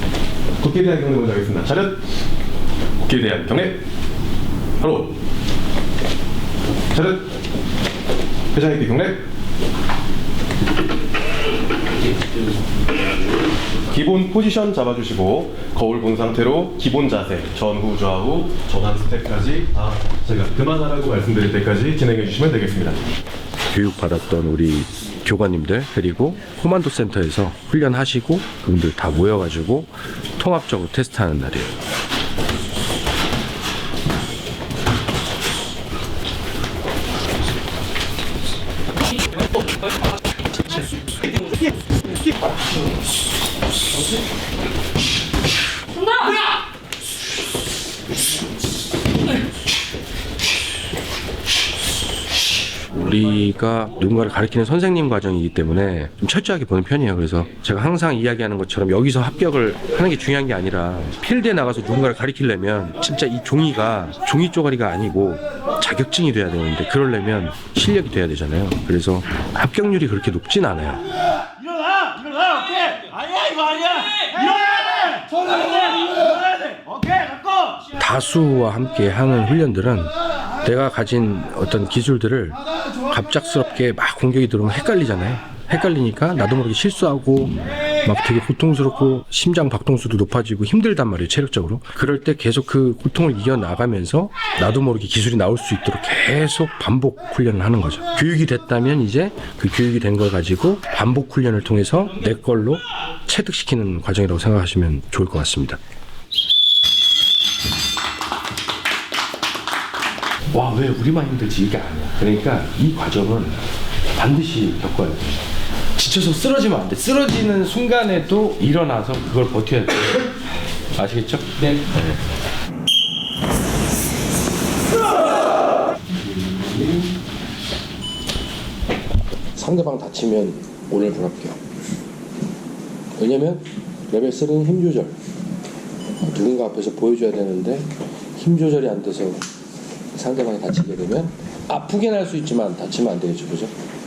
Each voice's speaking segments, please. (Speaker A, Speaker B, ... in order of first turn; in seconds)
Speaker A: 0.6-2.0, 3.0-3.8, 4.8-5.1, 6.9-7.2, 8.5-9.2, 13.9-23.0
Speaker B: 23.7-31.7, 52.9-71.0, 78.0-105.8, 110.5-113.6, 114.2-115.4, 116.0-120.3, 121.0-122.2, 126.4-126.9, 129.5-131.6, 133.2-135.2, 136.2-139.4, 140.1-143.7
Speaker C: 71.5-77.9, 87.5-88.1